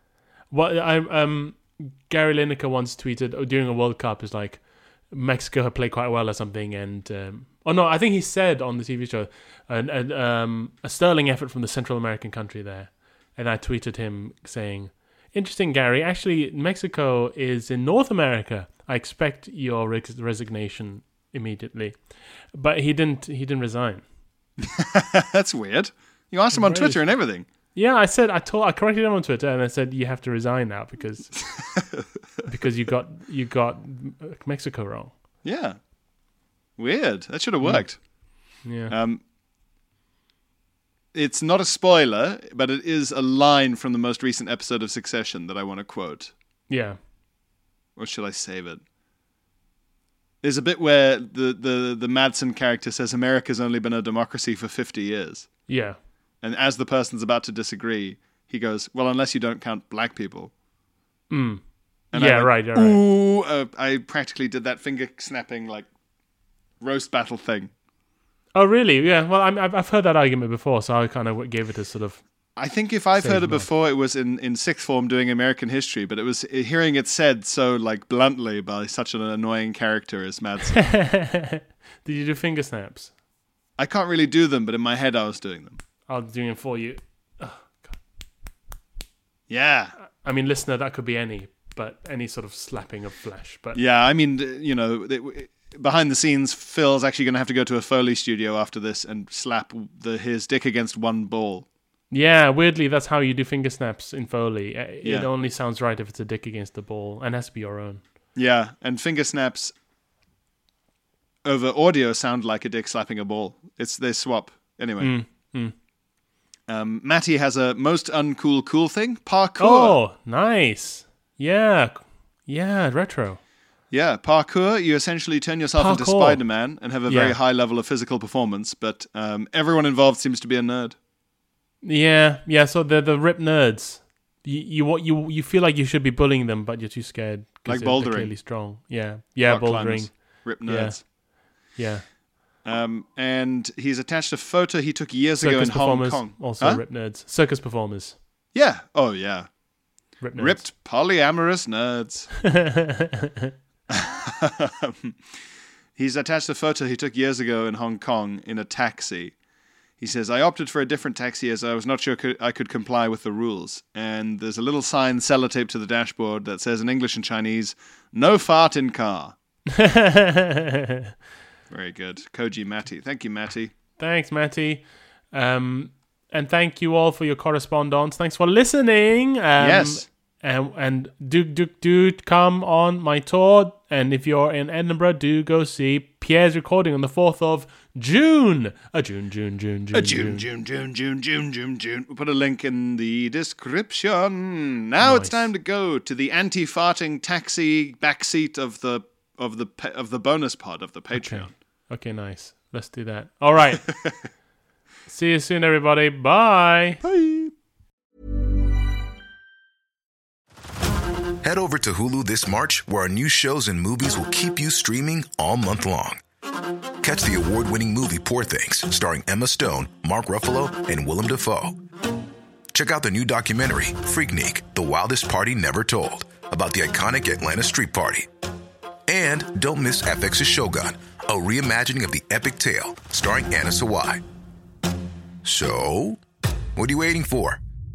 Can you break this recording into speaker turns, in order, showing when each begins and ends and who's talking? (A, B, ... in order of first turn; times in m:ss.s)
0:00.5-0:24.0 A
0:24.6-0:27.5 B
0:26.5-0:27.0 A
0:27.7-0:31.5 A
0:31.6-0:32.1 B
0:32.5-0:35.1 A
0:35.4-0:35.8 B
0:36.8-0:38.0 B
0:37.6-0:37.9 A
0:38.6-0:39.0 A
0:38.9-0:39.2 B
0:41.1-0:46.3 B
0:46.7-0:47.0 A
0:48.0-0:48.8 B
0:50.4-0:55.5 B
0:55.7-0:56.0 A
0:56.4-1:00.5 B
1:01.3-1:01.6 A
1:02.1-1:05.9 B
1:02.1-1:03.0 A
1:06.8-1:07.7 B
1:08.5-1:12.2 A
1:12.6-1:20.8 B
1:13.2-1:13.7 A
1:20.7-1:23.1 A
1:23.8-1:25.8 B
1:26.1-1:27.9 A
1:29.5-1:30.0 B
1:30.2-1:33.8 A
1:33.7-1:41.7 B
1:42.1-1:48.0 A
1:45.0-1:45.3 B
1:48.4-1:49.7 B
1:51.4-1:55.1 B
1:55.0-1:55.7 A
1:56.7-2:00.0 B
1:59.6-2:03.4 A
2:03.9-2:11.0 B
2:05.8-2:06.5 A
2:07.0-2:07.4 A
2:11.8-2:22.0 A
2:17.6-2:18.4 B
2:19.4-2:21.0 B
2:22.6-2:26.8 B
2:25.4-2:28.2 A
2:28.5-2:29.5 B
2:30.2-2:30.6 A
2:30.4-2:32.4 B
2:32.4-2:33.5 A
2:33.9-2:35.2 B
2:36.0-2:39.4 B
2:40.0-2:49.4 B
2:49.7-2:51.1 A
2:51.7-2:53.7 B
2:54.0-3:10.5 A
2:59.6-3:00.1 B
3:09.9-3:21.5 B
3:15.0-3:15.5 A
3:21.1-3:24.0 A
3:25.1-3:27.0 A
3:27.0-3:27.5 B
3:31.4-3:36.2 C
3:37.0-3:41.8 C
3:42.7-3:48.3 C
3:49.1-3:54.2 C
3:55.4-3:56.2 C
3:56.8-3:57.6 C